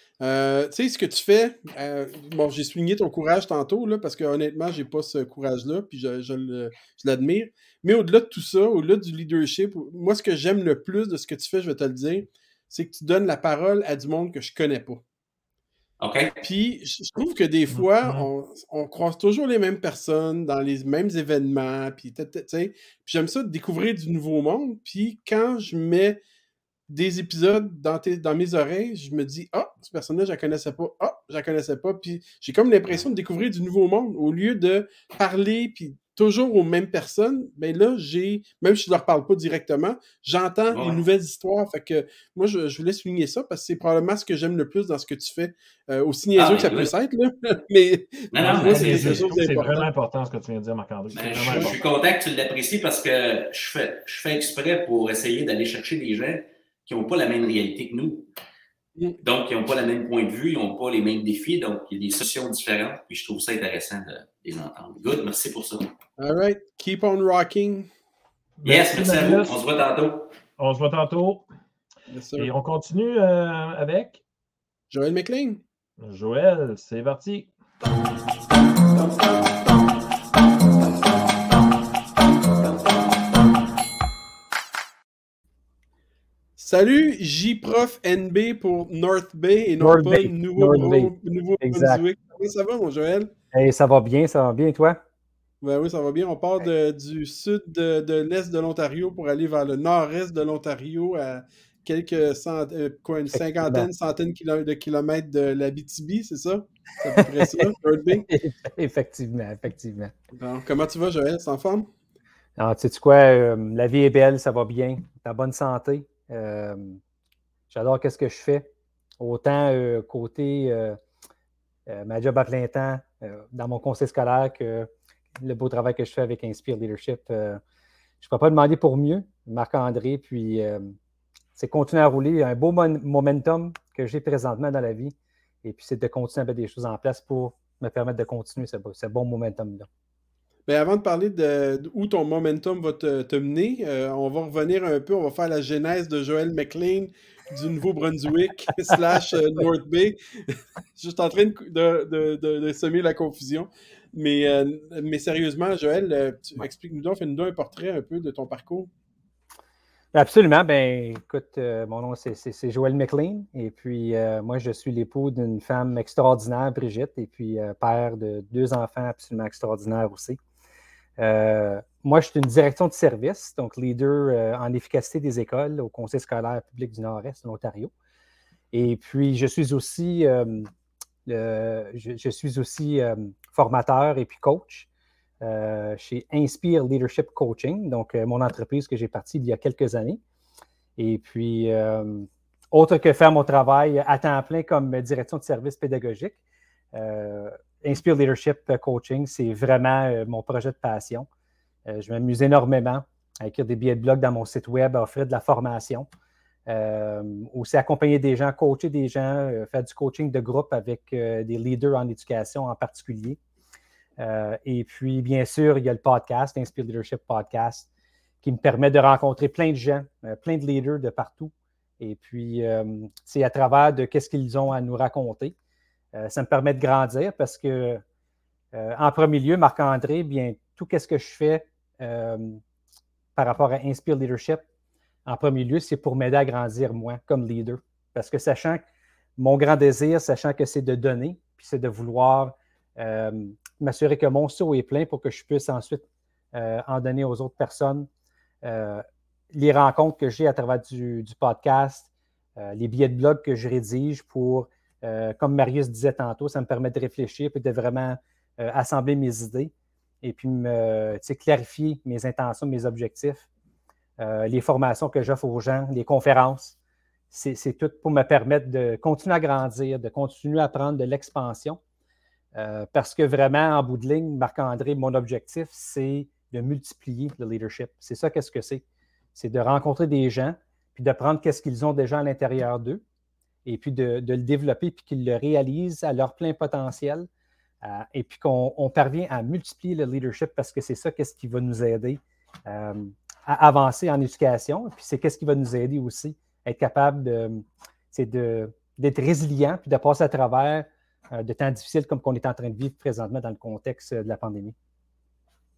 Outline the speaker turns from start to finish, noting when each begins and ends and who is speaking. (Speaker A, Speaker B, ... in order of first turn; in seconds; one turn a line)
Speaker A: 0.2-15.0
Speaker B: 16.0-16.3
Speaker A: 16.4-26.2
Speaker C: 17.7-18.3
Speaker A: 26.9-49.9
Speaker B: 40.7-41.0
Speaker B: 46.4-46.9
Speaker B: 48.3-49.6
Speaker C: 48.4-51.8
Speaker B: 51.1-58.3
Speaker B: 59.2-65.9
Speaker A: 66.2-67.9
Speaker C: 68.6-69.6
Speaker B: 68.7-70.3
Speaker C: 70.6-71.5
Speaker A: 72.1-72.5
Speaker C: 72.4-74.2
Speaker A: 74.9-75.6
Speaker C: 76.0-77.5
Speaker A: 86.6-93.3
Speaker D: 89.8-92.0
Speaker D: 93.5-95.0
Speaker A: 95.6-108.3
Speaker D: 103.3-103.9
Speaker D: 107.1-110.1
Speaker A: 110.3-111.9
Speaker D: 112.6-117.0
Speaker D: 117.7-121.0
Speaker D: 121.9-124.9
Speaker D: 125.4-127.6
Speaker D: 128.2-130.9
Speaker D: 131.6-139.9
Speaker A: 140.7-158.9
Speaker D: 160.1-170.4
Speaker D: 171.2-177.9
Speaker D: 178.7-180.7
Speaker D: 181.3-184.9
Speaker D: 185.4-190.2
Speaker D: 191.0-196.4
Speaker D: 196.9-201.3
Speaker D: 201.8-206.1
Speaker D: 206.7-213.4
Speaker D: 214.2-217.9
Speaker D: 218.4-225.5
Speaker D: 226.1-228.0
Speaker D: 228.7-232.6
Speaker D: 233.3-234.6
Speaker D: 235.2-238.8
Speaker D: 239.4-248.1
Speaker D: 248.6-263.4
Speaker D: 264.2-266.7
Speaker D: 267.3-271.8
Speaker D: 272.5-278.8
Speaker D: 279.4-283.0
Speaker D: 283.6-287.3
Speaker D: 287.8-304.7